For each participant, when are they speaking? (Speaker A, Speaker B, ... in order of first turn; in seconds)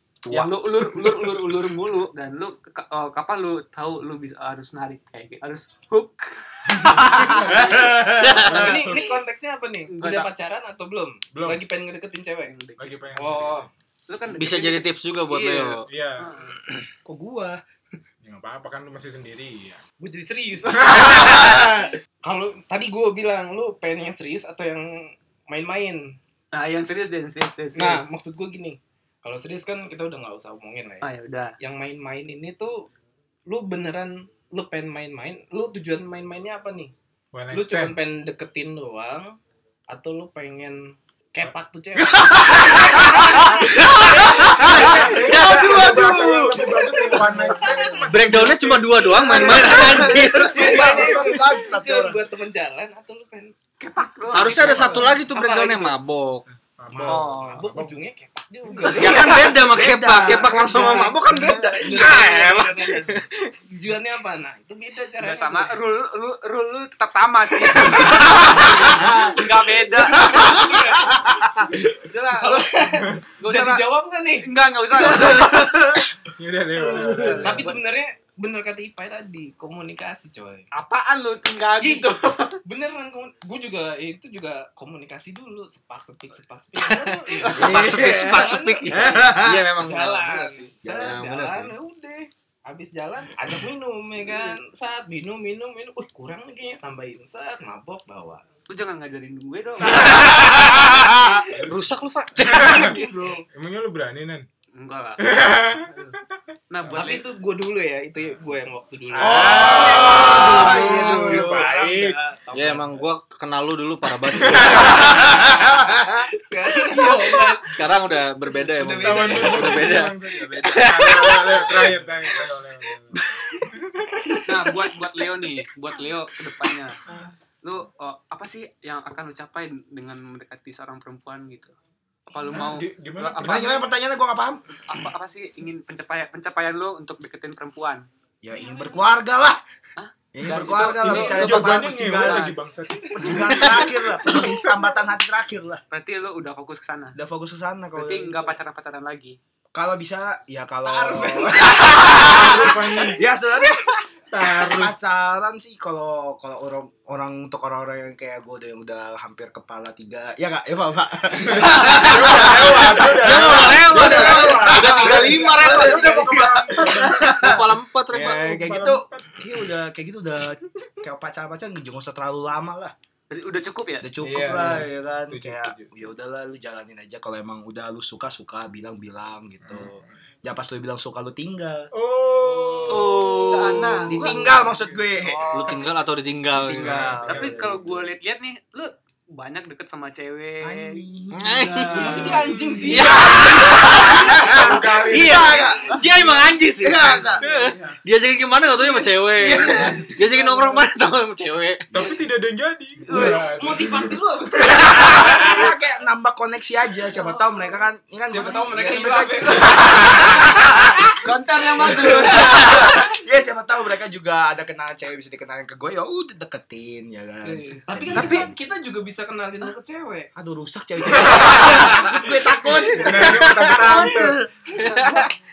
Speaker A: 0.3-1.1, 7.6-8.5, 17.1-17.6, 21.0-21.9, 42.3-43.6, 49.2-52.2, 59.0-62.1, 68.7-69.4, 70.2-71.8, 76.9-77.5, 87.5-89.7, 90.8-91.2, 100.3-101.4, 109.2-111.7, 115.1-116.2, 133.4-134.6, 138.4-139.6, 140.3-142.5, 143.1-145.8, 147.2-148.6, 149.8-172.9, 174.0-181.9, 182.9-185.8, 186.6-188.1, 190.6-196.0, 196.8-198.0, 199.4-200.1, 204.7-211.1, 211.8-218.6, 220.4-224.3
Speaker B: 0.3-7.9, 8.7-8.9, 9.9-10.3, 12.5-12.9, 14.1-16.6, 26.5-28.1, 31.0-31.6, 53.8-55.1, 57.0-57.6, 65.2-70.7, 72.0-72.7, 73.4-75.8, 76.8-77.8, 80.7-82.6, 87.3-87.8, 98.7-100.3, 104.8-105.2, 106.7-107.3, 124.5-127.0, 127.6-131.8, 132.3-133.8, 134.9-138.1, 140.0-142.6, 145.9-147.2, 147.9-149.4, 173.3-174.1, 182.5-184.4, 185.1-185.8, 187.2-191.0, 203.1-203.4, 211.2-212.8, 218.1-218.5, 224.8-225.3
Speaker C: 6.7-9.1, 11.3-11.6, 12.8-13.7, 15.9-16.3, 18.2-19.8, 37.3-38.0, 44.6-49.6, 50.4-51.6, 56.8-58.0, 76.4-77.7, 101.5-101.8, 102.4-103.0, 103.5-104.5, 105.2-106.4, 109.2-109.6, 110.2-112.2, 114.4-115.5, 117.0-117.3, 119.0-124.2, 132.4-133.8, 140.4-145.1, 152.1-153.4, 154.3-154.9, 161.4-167.6, 168.2-169.6, 174.2-176.0, 179.6-180.1, 181.9-185.3, 186.6-187.6, 192.5-193.0, 194.4-195.6, 201.9-204.1, 205.2-205.7, 222.9-224.5
Speaker D: 7.0-13.7, 20.0-26.2, 27.8-31.1, 31.6-32.9, 33.5-36.9, 37.5-39.4, 39.9-48.0, 49.3-53.5, 54.3-56.0, 56.9-59.4, 60.4-65.8, 67.8-69.3, 70.1-76.1, 76.9-80.7, 81.8-98.4, 99.8-101.3, 102.9-103.4, 106.8-113.1, 114.7-115.7, 116.4-122.5, 123.1-125.6, 138.5-139.0, 143.0-143.8, 150.8-153.2, 164.8-165.6, 191.9-195.1, 196.1-196.5, 197.2-197.8, 199.4-200.8, 203.1-205.7, 207.0-207.6, 208.3-210.9, 212.2-213.0, 217.4-220.3, 221.4-223.3, 224.7-225.2
Speaker E: 8.2-8.6, 14.3-15.9, 42.6-46.3, 48.1-50.7, 54.3-56.5, 59.0-63.5, 86.8-91.8, 100.0-101.0, 101.7-103.4, 109.2-110.5, 112.5-115.5, 117.6-120.2, 162.0-168.6, 182.9-183.7, 185.5-187.2, 191.3-202.0